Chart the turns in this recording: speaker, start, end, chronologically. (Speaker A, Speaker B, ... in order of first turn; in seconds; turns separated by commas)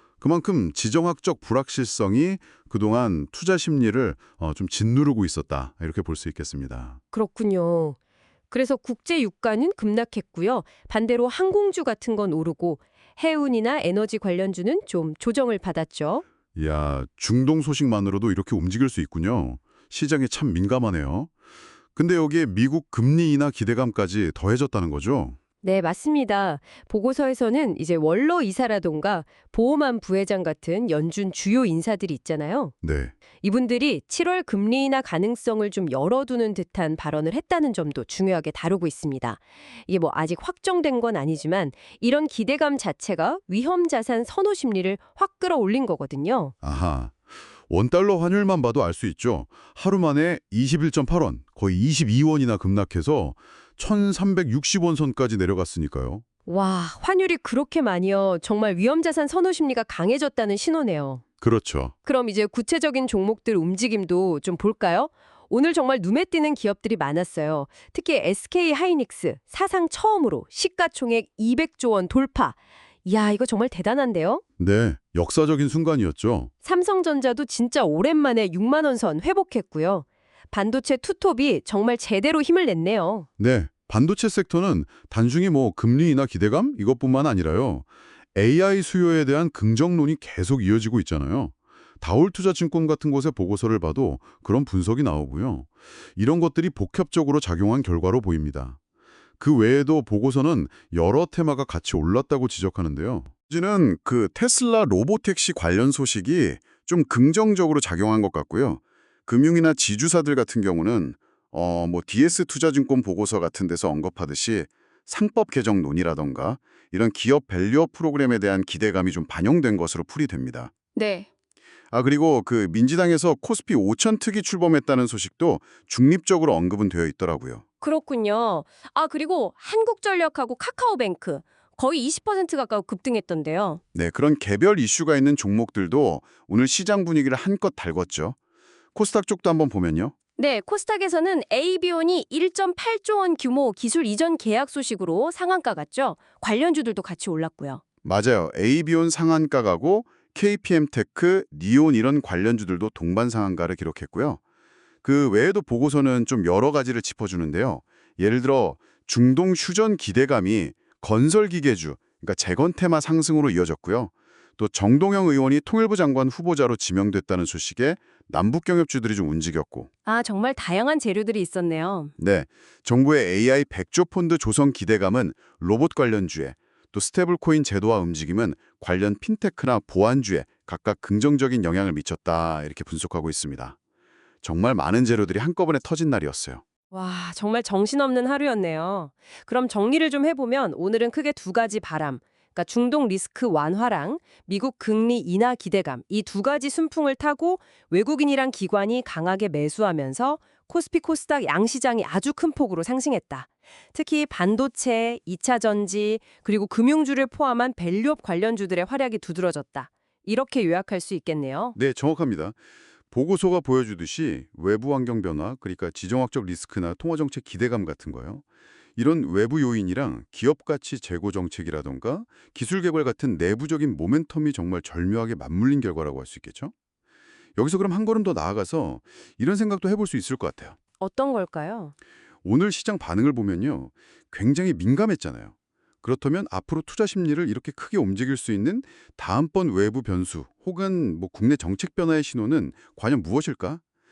Speaker A: 0.2-7.0, Speaker B: 7.1-8.0, Speaker B: 8.5-16.2, Speaker A: 16.5-21.3, Speaker A: 21.9-25.4, Speaker B: 25.6-32.7, Speaker A: 32.8-33.1, Speaker B: 33.4-46.5, Speaker A: 46.6-56.2, Speaker B: 56.5-61.2, Speaker A: 61.4-61.9, Speaker B: 62.0-74.4, Speaker A: 74.6-76.5, Speaker B: 76.6-83.3, Speaker A: 83.4-98.8, Speaker A: 99.4-120.7, Speaker B: 120.9-121.3, Speaker A: 121.9-127.6, Speaker B: 127.8-133.8, Speaker A: 133.9-138.3, Speaker A: 138.9-140.1, Speaker B: 140.4-147.8, Speaker A: 148.0-154.4, Speaker A: 155.0-169.9, Speaker B: 170.1-172.1, Speaker A: 172.2-183.8, Speaker A: 184.4-186.6, Speaker B: 186.9-211.8, Speaker A: 211.7-212.6, Speaker A: 213.1-218.4, Speaker A: 218.9-226.7, Speaker A: 227.6-230.8, Speaker B: 231.0-231.9, Speaker A: 232.4-243.8